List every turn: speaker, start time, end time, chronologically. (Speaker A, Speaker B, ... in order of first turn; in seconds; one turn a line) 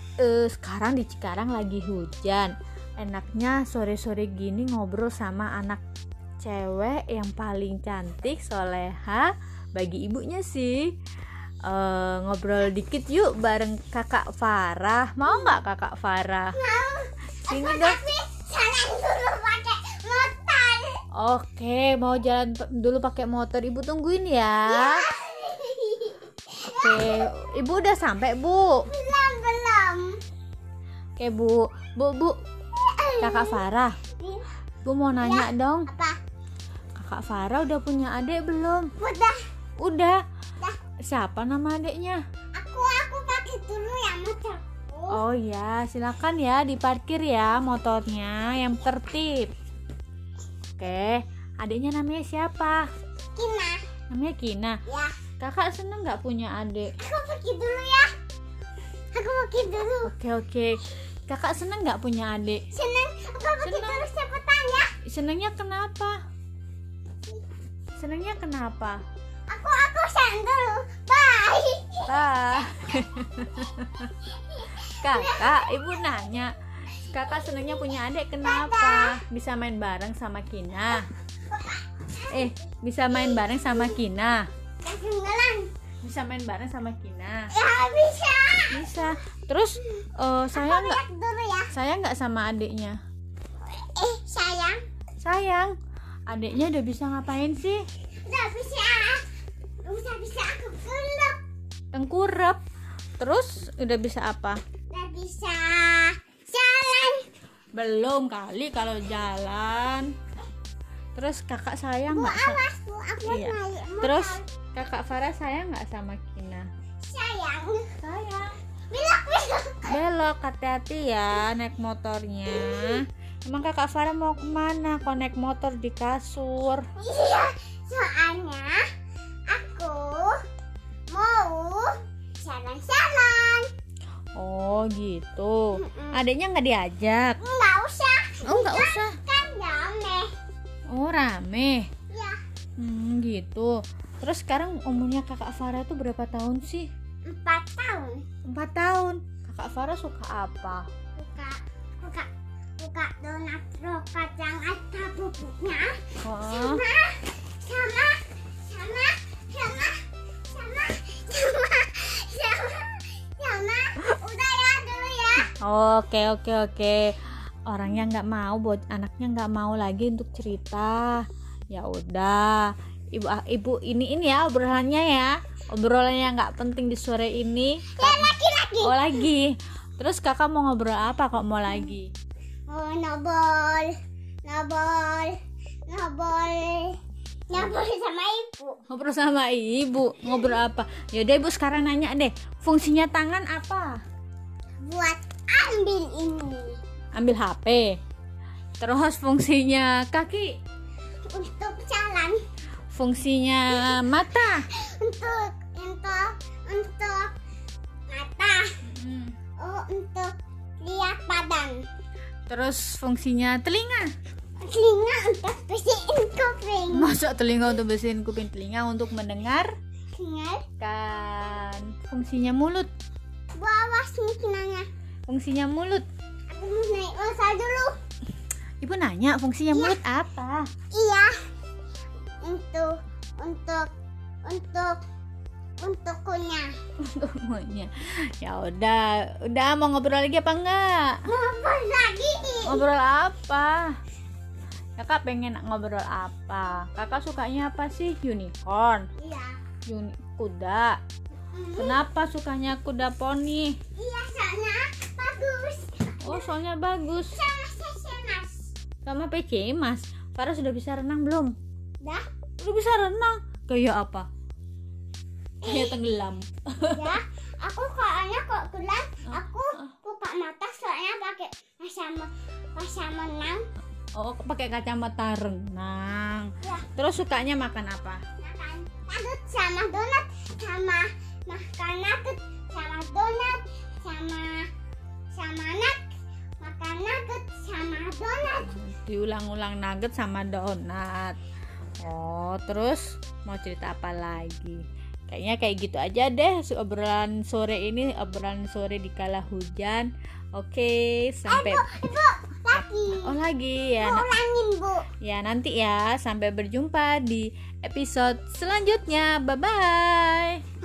Speaker A: 0.2-5.8
Speaker A: 6.4-10.9
Speaker A: 11.6-16.6
Speaker B: 15.2-15.5
Speaker B: 16.5-21.0
Speaker A: 17.5-18.0
Speaker A: 21.1-25.1
Speaker B: 24.6-27.3
Speaker A: 26.8-28.9
Speaker B: 28.9-30.2
Speaker A: 31.2-32.4
Speaker B: 32.7-33.6
Speaker A: 33.2-33.9
Speaker B: 34.2-34.4
Speaker A: 34.8-35.9
Speaker B: 35.2-36.2
Speaker A: 37.0-38.9
Speaker B: 39.0-39.4
Speaker A: 39.8-40.2
Speaker A: 41.0-42.2
Speaker B: 42.5-45.2
Speaker A: 45.1-49.5
Speaker A: 50.8-52.8
Speaker B: 53.3-53.8
Speaker A: 54.1-54.8
Speaker B: 54.9-55.1
Speaker A: 55.4-56.9
Speaker B: 57.0-58.1
Speaker B: 59.1-60.1
Speaker A: 60.0-62.6
Speaker B: 62.7-64.9
Speaker A: 63.6-64.1
Speaker A: 65.1-66.2
Speaker A: 68.0-69.0
Speaker B: 69.5-72.1
Speaker A: 72.0-74.1
Speaker B: 74.3-75.8
Speaker A: 74.8-81.1
Speaker B: 78.4-79.2
Speaker B: 81.5-82.5
Speaker A: 82.3-84.5
Speaker B: 83.3-83.8
Speaker B: 84.8-85.7
Speaker A: 86.0-87.5
Speaker B: 87.5-89.0
Speaker A: 88.7-91.0
Speaker B: 90.5-91.7
Speaker A: 91.7-93.0
Speaker B: 93.7-94.8
Speaker A: 95.2-95.8
Speaker A: 96.3-97.8
Speaker B: 98.2-99.2
Speaker B: 99.8-101.4
Speaker A: 101.9-102.6
Speaker A: 103.2-104.6
Speaker B: 104.9-107.2
Speaker A: 107.7-110.1
Speaker A: 111.2-112.6
Speaker B: 112.1-114.4
Speaker A: 113.2-116.7
Speaker B: 117.0-117.9
Speaker A: 118.0-118.5
Speaker B: 118.9-120.0
Speaker A: 119.9-126.8
Speaker B: 122.5-123.0
Speaker B: 127.0-128.8
Speaker B: 129.5-130.3
Speaker B: 131.1-133.7
Speaker A: 134.3-137.4
Speaker B: 135.7-136.2
Speaker B: 137.4-140.3
Speaker A: 138.4-139.2
Speaker A: 140.9-141.9
Speaker B: 142.1-142.4
Speaker A: 142.8-146.9
Speaker B: 147.2-148.2
Speaker A: 148.5-150.9
Speaker B: 151.2-152.3
Speaker B: 152.8-165.5
Speaker A: 156.2-156.8
Speaker A: 165.6-167.2
Speaker A: 167.7-182.1
Speaker B: 178.0-179.2
Speaker B: 182.7-183.9
Speaker B: 184.4-185.3
Speaker B: 185.9-187.0
Speaker B: 187.5-188.8
Speaker A: 188.9-194.0
Speaker B: 190.3-190.5
Speaker B: 194.8-196.7
Speaker A: 197.1-197.9
Speaker A: 198.8-200.6
Speaker B: 201.2-202.4
Speaker A: 202.9-204.7
Speaker B: 203.8-204.0
Speaker B: 204.7-207.3
Speaker B: 208.1-208.7
Speaker A: 208.8-209.3
Speaker B: 209.6-211.8
Speaker A: 212.5-214.1
Speaker B: 214.6-217.1
Speaker A: 216.9-219.7
Speaker B: 220.1-220.6
Speaker A: 220.8-222.9
Speaker B: 223.5-224.9
Speaker A: 225.3-226.0
Speaker B: 226.5-227.9
Speaker A: 228.8-230.6
Speaker B: 229.7-230.0
Speaker B: 230.9-231.3
Speaker B: 232.4-233.9
Speaker B: 234.4-234.9
Speaker B: 235.8-236.7
Speaker A: 237.0-241.2
Speaker B: 241.3-242.8
Speaker A: 242.7-243.9
Speaker A: 245.0-249.1
Speaker B: 249.2-249.5
Speaker A: 249.8-251.0
Speaker B: 251.5-252.0
Speaker A: 251.8-253.8
Speaker B: 254.0-256.5
Speaker A: 256.2-257.4
Speaker B: 257.3-258.7
Speaker A: 259.0-261.5
Speaker A: 262.6-264.3
Speaker A: 265.6-267.1
Speaker B: 265.6-265.9
Speaker B: 266.9-273.6
Speaker A: 269.3-269.9
Speaker A: 274.1-278.2
Speaker B: 276.6-276.9
Speaker B: 278.4-284.7
Speaker B: 285.3-286.0
Speaker B: 286.6-288.7
Speaker A: 288.5-291.4
Speaker A: 292.0-301.9
Speaker B: 301.5-303.3
Speaker A: 302.7-304.3
Speaker B: 304.0-305.1
Speaker A: 305.2-310.6